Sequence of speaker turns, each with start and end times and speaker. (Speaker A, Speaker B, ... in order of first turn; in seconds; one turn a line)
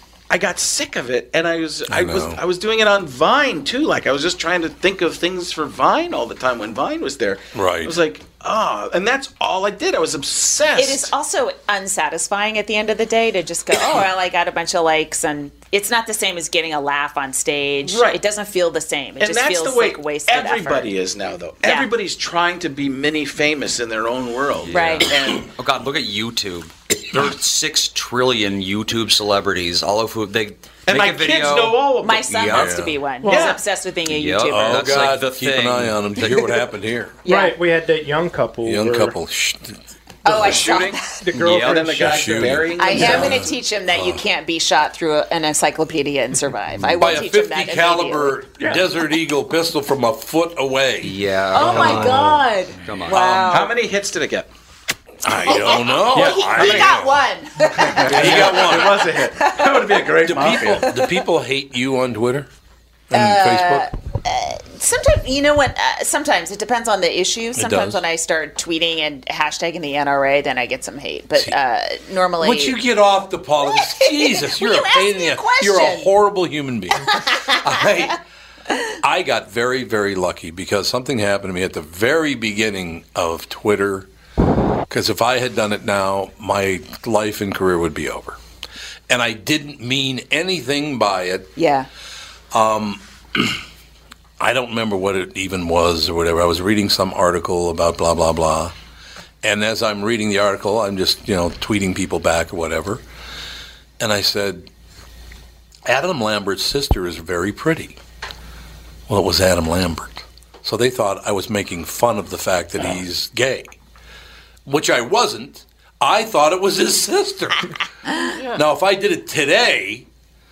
Speaker A: 0.3-11.1
Speaker B: 1.9-2.4
Speaker B: 7.5-7.9
Speaker C: 10.7-20.9
Speaker A: 17.8-18.2
Speaker A: 19.2-25.5
Speaker C: 21.6-21.9
Speaker D: 24.6-32.9
Speaker C: 24.7-25.1
Speaker A: 30.9-32.3
Speaker C: 32.0-35.0
Speaker B: 32.5-32.9
Speaker E: 33.2-33.6
Speaker A: 33.3-33.6
Speaker D: 34.1-36.0
Speaker B: 34.5-37.1
Speaker C: 36.2-36.6
Speaker C: 37.2-37.6
Speaker E: 37.2-39.1
Speaker B: 38.6-40.6
Speaker A: 40.2-43.5
Speaker C: 40.3-41.2
Speaker E: 41.2-42.2
Speaker D: 41.3-43.2
Speaker B: 41.9-44.2
Speaker C: 42.8-48.4
Speaker E: 42.8-43.1
Speaker B: 47.0-52.3
Speaker D: 51.0-53.4
Speaker C: 51.5-53.7
Speaker A: 53.2-54.5
Speaker B: 55.2-57.2
Speaker A: 55.4-56.9
Speaker C: 55.4-60.2
Speaker A: 57.7-61.0
Speaker B: 57.9-59.0
Speaker B: 60.2-62.5
Speaker B: 63.1-63.9
Speaker C: 63.1-72.8
Speaker B: 67.5-68.0
Speaker B: 72.4-78.2
Speaker C: 73.6-76.1
Speaker C: 77.1-77.6
Speaker B: 79.0-84.1
Speaker B: 84.9-88.4
Speaker B: 89.1-91.5
Speaker C: 91.5-91.9
Speaker B: 92.5-93.4
Speaker B: 94.4-98.7
Speaker B: 99.4-103.0
Speaker B: 104.0-104.7
Speaker B: 105.8-108.0
Speaker B: 109.1-113.8
Speaker B: 114.7-117.7
Speaker B: 118.5-120.0